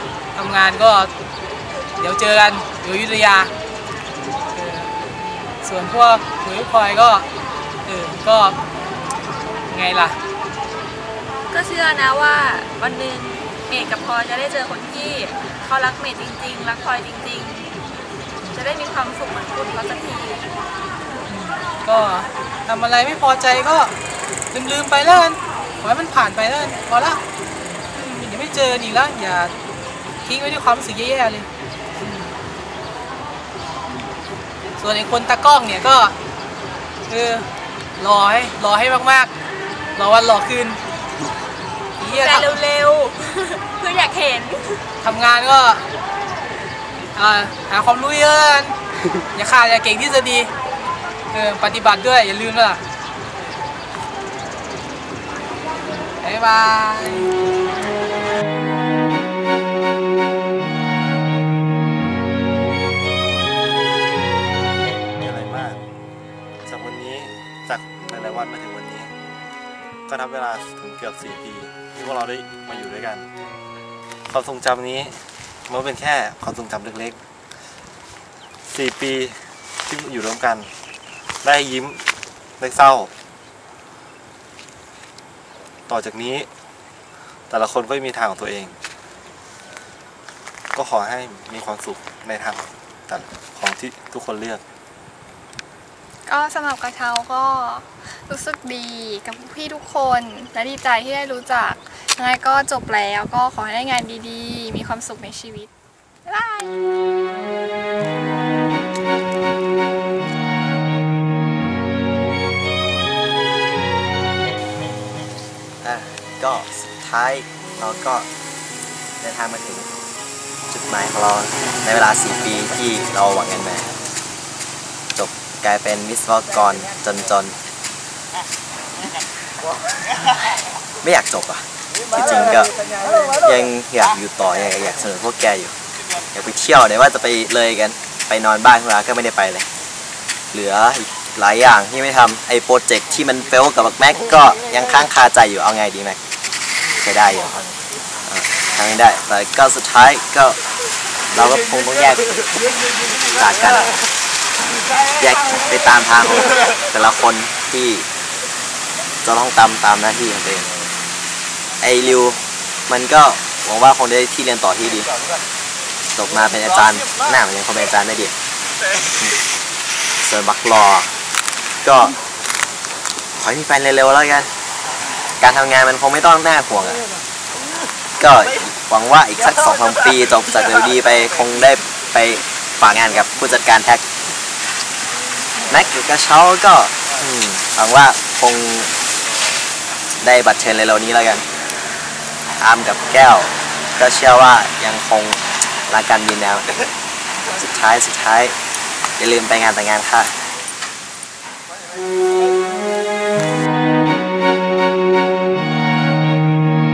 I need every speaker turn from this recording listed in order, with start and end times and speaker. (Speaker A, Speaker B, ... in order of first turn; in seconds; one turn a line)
Speaker A: 0.3-1.1
Speaker A: 2.0-3.5
Speaker A: 4.5-5.0
Speaker A: 5.6-7.3
Speaker A: 7.8-8.6
Speaker A: 9.7-10.2
Speaker B: 11.5-17.7
Speaker B: 18.5-20.5
Speaker A: 21.3-23.9
Speaker A: 24.5-27.2
Speaker A: 27.9-29.5
Speaker A: 30.2-31.5
Speaker A: 32.0-32.3
Speaker A: 34.8-36.1
Speaker A: 37.1-37.5
Speaker A: 38.0-39.3
Speaker A: 40.0-40.8
Speaker B: 42.0-44.8
Speaker A: 42.0-42.6
Speaker A: 45.0-45.8
Speaker A: 47.1-48.8
Speaker A: 49.3-50.5
Speaker A: 51.3-52.8
Speaker A: 56.2-57.3
Speaker C: 65.2-65.8
Speaker C: 66.7-69.1
Speaker C: 70.1-73.3
Speaker C: 74.3-77.2
Speaker C: 78.7-80.7
Speaker C: 81.4-82.0
Speaker C: 82.6-83.1
Speaker C: 85.9-86.5
Speaker C: 87.5-88.8
Speaker C: 90.7-94.6
Speaker D: 96.3-97.8
Speaker D: 98.3-99.5
Speaker D: 100.2-105.7
Speaker E: 115.8-118.3
Speaker E: 119.2-119.9
Speaker E: 120.7-123.9
Speaker E: 125.2-127.6
Speaker E: 131.0-132.7
Speaker E: 133.3-135.8
Speaker E: 136.3-139.7
Speaker E: 140.5-146.2
Speaker E: 147.0-147.6
Speaker E: 148.3-150.6
Speaker E: 151.3-152.4
Speaker E: 153.3-153.9
Speaker E: 155.2-158.1
Speaker E: 159.2-160.7
Speaker E: 161.8-165.1
Speaker E: 166.2-168.3
Speaker E: 170.2-171.1
Speaker E: 171.8-172.2
Speaker E: 173.4-174.5
Speaker E: 175.4-177.0
Speaker E: 178.2-184.0
Speaker E: 185.7-188.9
Speaker E: 190.2-191.4
Speaker E: 192.6-196.7
Speaker E: 197.5-198.6
Speaker E: 199.2-200.3